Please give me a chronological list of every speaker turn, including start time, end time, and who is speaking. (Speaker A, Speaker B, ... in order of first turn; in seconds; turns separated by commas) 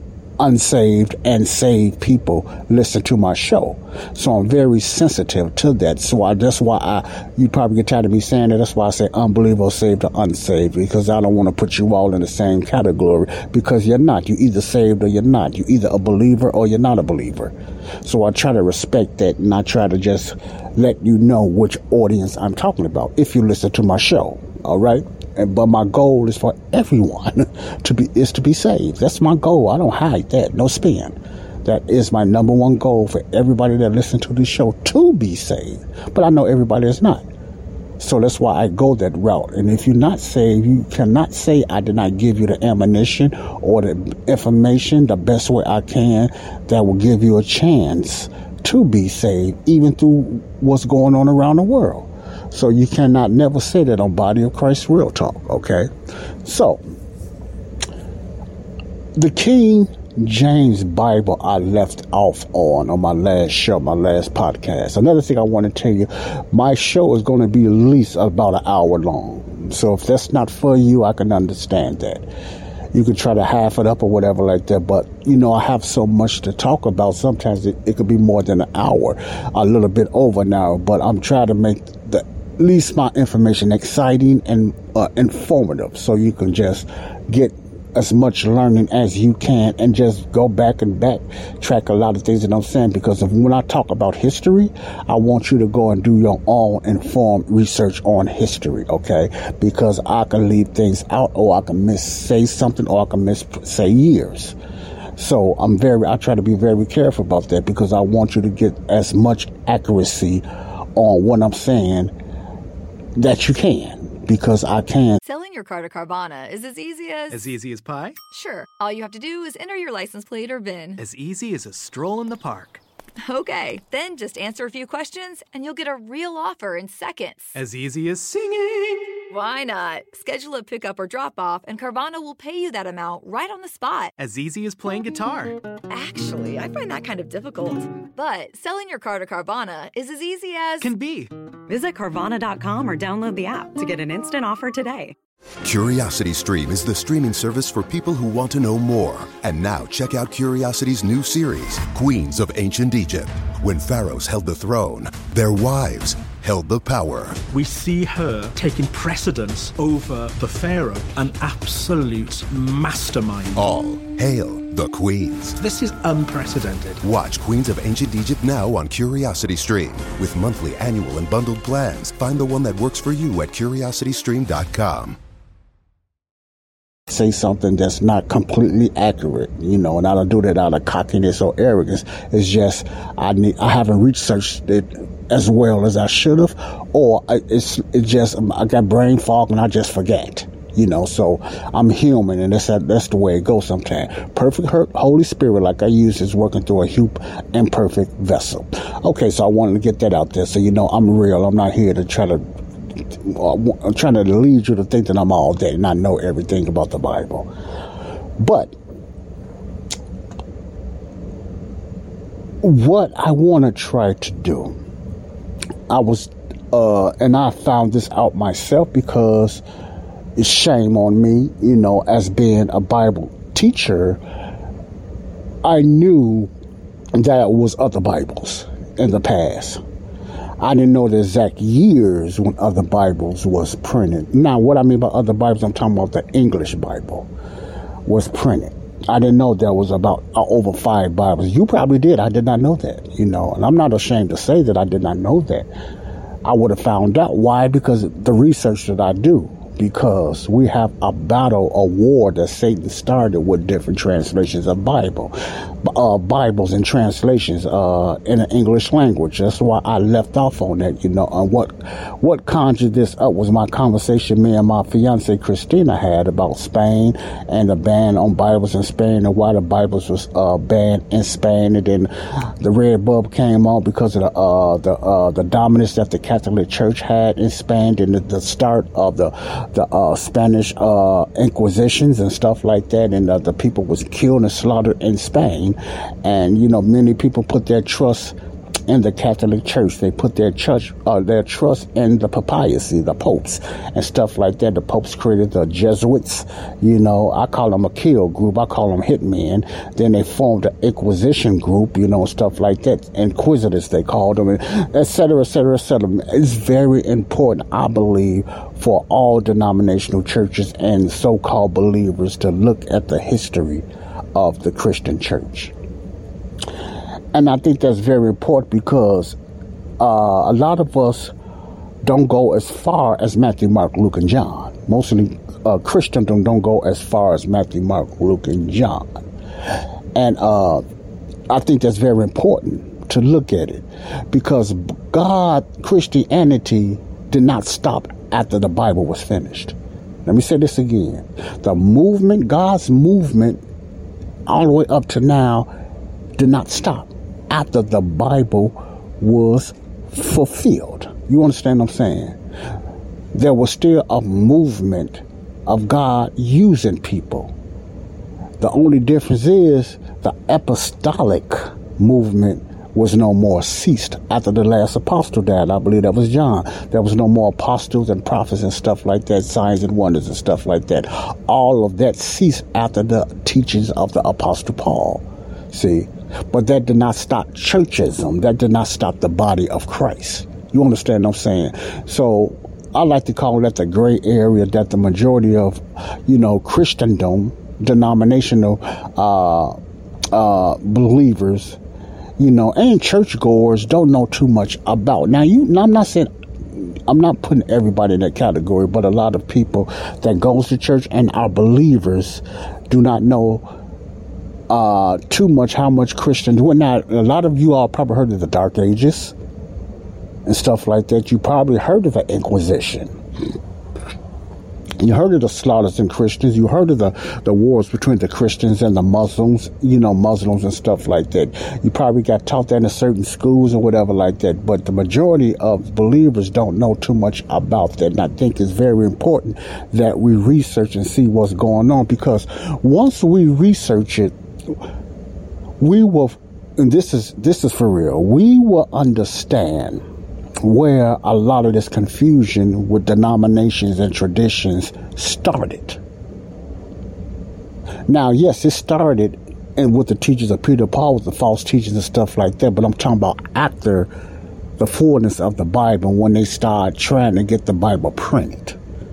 Speaker A: 0.4-37.2, Speaker A: 38.0-55.9, Speaker A: 56.4-56.8, Speaker A: 59.1-72.3, Speaker A: 72.9-104.6, Speaker A: 105.2-112.1, Speaker A: 113.2-115.2, Speaker B: 115.2-117.4, Speaker C: 117.3-118.2, Speaker B: 118.3-121.0, Speaker C: 121.0-122.8, Speaker B: 123.2-127.6, Speaker C: 127.5-129.1, Speaker B: 129.3-134.1, Speaker C: 134.2-135.6, Speaker B: 135.9-140.8, Speaker C: 140.8-141.3, Speaker D: 141.7-145.1, Speaker E: 145.6-157.4, Speaker F: 157.5-163.6, Speaker E: 163.5-165.6, Speaker F: 165.6-167.0, Speaker E: 167.0-175.2, Speaker A: 177.1-202.4, Speaker A: 202.9-207.5, Speaker A: 208.4-208.8, Speaker A: 212.6-214.8, Speaker A: 215.9-219.6, Speaker A: 220.3-224.2, Speaker A: 225.6-226.5, Speaker A: 227.1-229.8, Speaker A: 230.6-237.3, Speaker A: 238.0-245.7, Speaker A: 246.4-288.4, Speaker A: 288.9-315.7, Speaker A: 317.3-319.4, Speaker A: 320.0-321.3, Speaker A: 322.0-330.8, Speaker A: 331.5-343.6, Speaker A: 344.4-345.7, Speaker A: 346.4-352.4, Speaker A: 353.3-357.5, Speaker A: 358.6-389.8, Speaker A: 390.3-391.8, Speaker A: 392.4-403.7, Speaker A: 404.7-409.4, Speaker A: 410.4-413.2, Speaker A: 415.0-434.8, Speaker A: 435.8-440.0, Speaker A: 440.6-446.0, Speaker A: 448.1-454.1, Speaker A: 454.8-458.8